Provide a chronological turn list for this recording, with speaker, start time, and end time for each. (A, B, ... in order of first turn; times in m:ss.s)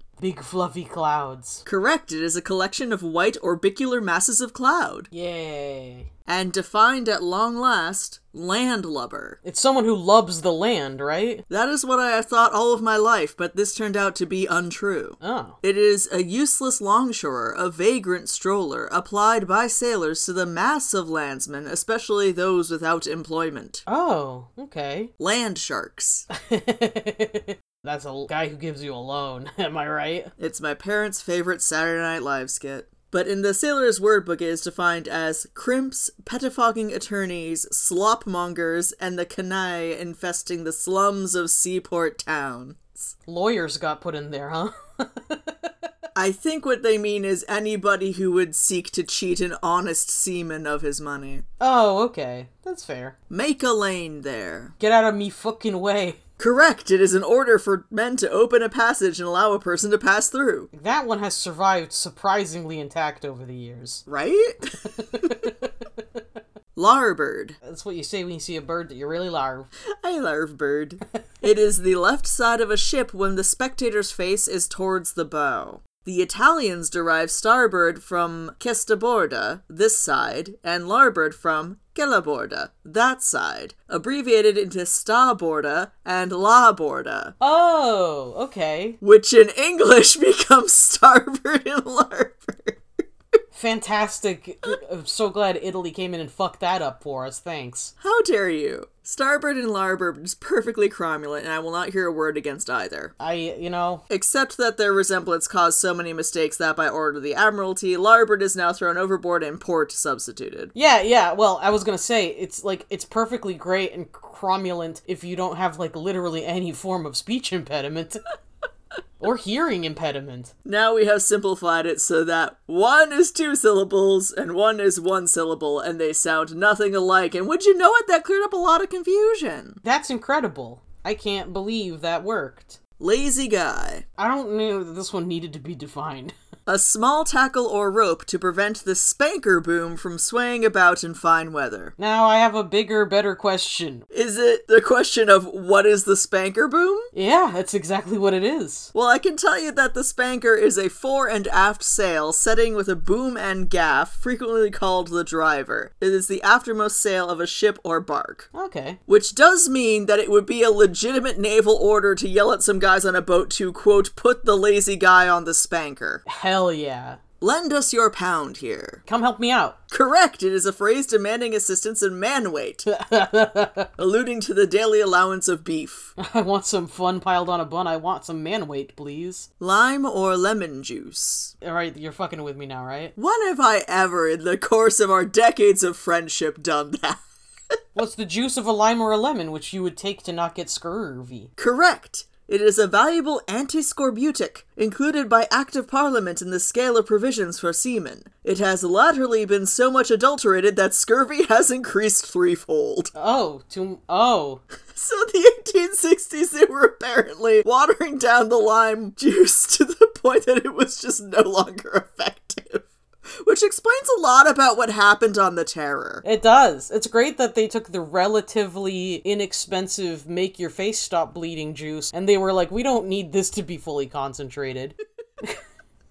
0:00.2-0:01.6 A
0:01.7-0:05.1 B
0:05.1-0:06.1 A
0:06.3-0:09.4 B
0:09.4-0:11.4 A
0:11.5-0:23.8 B
0:15.2-0:15.6 A
0:23.9-0:25.1 A
0:25.2-0:26.3 B
0:26.4-0:30.3 A
0:30.4-0:43.2 B
0:43.3-0:45.6 A
0:46.2-0:51.4 B
0:51.6-0:53.2 A
0:53.3-0:54.8 B
0:54.8-0:56.2 A
0:56.4-1:00.7 B
1:00.7-1:04.0 A
1:04.1-1:05.4 B
1:05.2-1:05.5 A
1:06.8-1:07.6 B
1:07.6-1:09.7 A
1:10.0-1:27.3 B
1:27.4-1:29.0 A
1:29.0-1:32.8 B
1:33.5-1:37.9 A
1:38.0-1:43.1 B
1:43.2-1:44.0 A
1:44.1-1:50.7 B
1:50.8-1:58.2 A
1:59.2-2:00.5 A
2:00.6-2:09.8 B
2:09.8-2:12.8 A
2:13.0-2:14.0 B
2:14.2-2:16.3 A
2:16.7-2:22.0 B
2:22.0-2:24.0 A
2:24.1-2:27.1 B
2:27.1-2:28.9 A
2:28.9-2:38.5 B
2:38.5-2:39.0 A
2:39.1-2:46.2 B
2:46.3-2:47.2 A
2:47.4-2:49.0 B
2:49.1-2:49.8 A
2:49.9-2:52.9 B
2:52.9-2:53.9 A
2:54.0-2:56.1 B
2:56.2-2:59.5 A
2:59.6-3:01.6 B
3:01.6-3:03.2 A
3:03.2-3:07.2 B
3:08.0-3:11.5 A
3:11.6-3:23.1 B
3:23.2-3:24.6 A
3:24.9-3:32.9 B
3:33.4-3:36.2 B
3:36.2-3:45.6 A